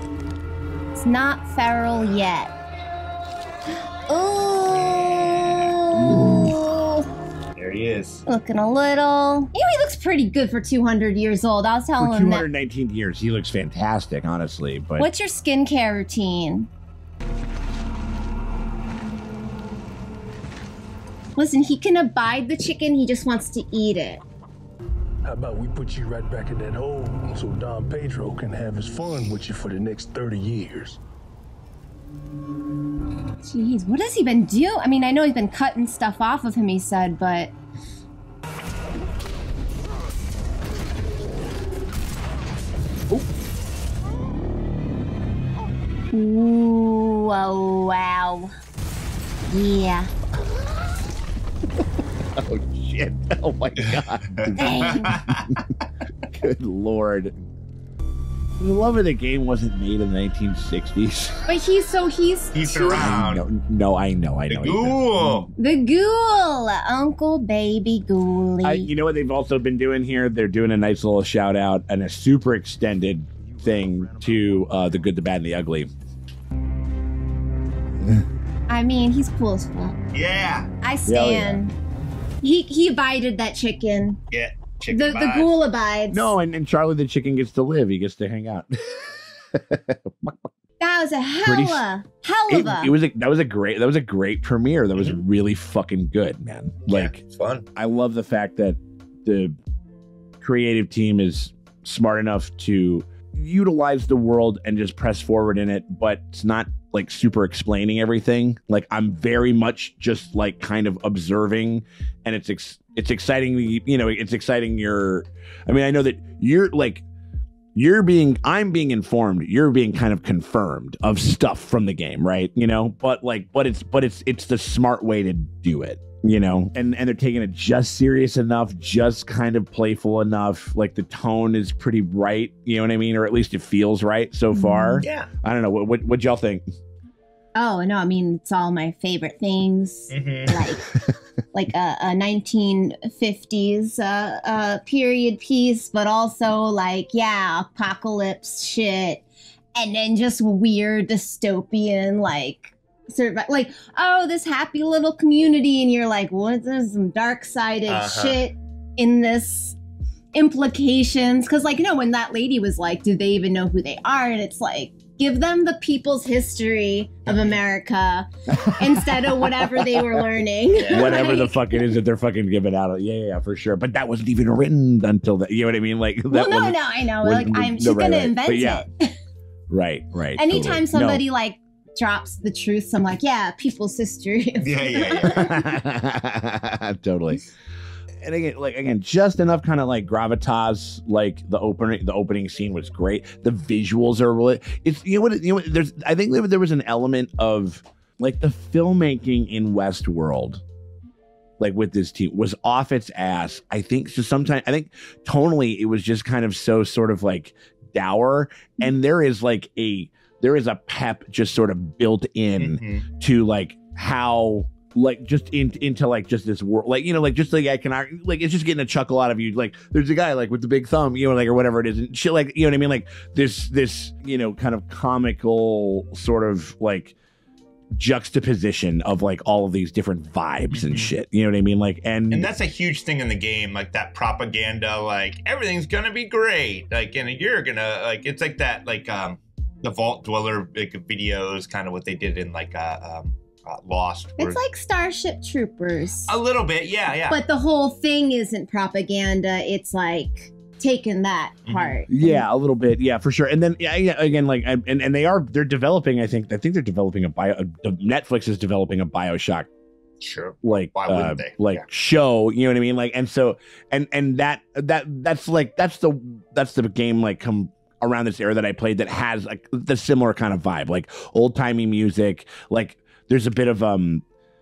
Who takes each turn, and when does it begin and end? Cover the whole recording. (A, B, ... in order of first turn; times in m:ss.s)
0:01.0-0:02.5 A
0:04.1-0:07.1 A
0:04.7-0:05.7 B
0:06.0-0:06.6 C
0:07.6-0:08.2 B
0:08.3-0:12.5 A
0:12.0-0:15.1 C
0:15.0-0:16.7 A
0:21.4-0:24.2 A
0:25.2-0:31.0 D
0:33.4-0:37.5 A
0:46.1-0:48.5 A
0:49.5-0:50.1 A
0:52.4-0:55.4 C
0:54.4-0:55.6 B
0:54.6-0:55.2 A
0:56.3-0:57.4 C
0:58.6-1:01.4 C
1:01.5-1:03.2 A
1:02.5-1:03.4 B
1:03.0-1:05.5 C
1:04.5-1:05.5 B
1:05.6-1:08.9 A
1:08.6-1:15.9 C
1:18.7-1:20.0 A
1:20.1-1:20.7 B
1:20.8-1:21.7 A
1:21.1-1:21.6 C
1:22.4-1:24.2 A
1:24.3-1:25.6 B
1:24.9-1:26.3 A
1:26.1-1:30.5 C
1:30.8-1:32.9 A
1:31.4-1:31.8 C
1:32.5-1:37.2 C
1:36.9-1:37.7 B
1:37.8-1:39.6 C
1:40.4-1:57.0 C
1:57.8-2:16.6 C
2:14.5-2:15.0 A
2:15.0-2:15.3 B
2:17.6-2:20.8 A
2:20.1-2:20.6 B
2:21.5-2:29.2 A
2:29.8-2:39.8 A
2:37.9-2:38.4 B
2:40.3-2:51.9 A
2:47.3-2:47.6 B
2:48.5-2:58.8 C
2:50.8-2:51.2 B
2:56.3-2:59.1 A
2:59.7-3:01.2 C
3:00.4-3:05.6 A
3:04.6-3:05.5 B
3:05.3-3:07.4 C
3:08.2-3:20.6 C
3:21.6-3:47.2 C
3:32.6-3:33.1 B
3:47.9-3:52.5 C
3:50.7-3:51.1 B
3:52.3-4:04.6 B
4:04.4-4:06.4 A
4:06.3-4:07.4 B
4:07.3-4:12.5 A
4:11.7-4:12.0 B
4:12.1-4:19.7 C
4:20.2-4:21.8 B
4:20.6-4:34.2 C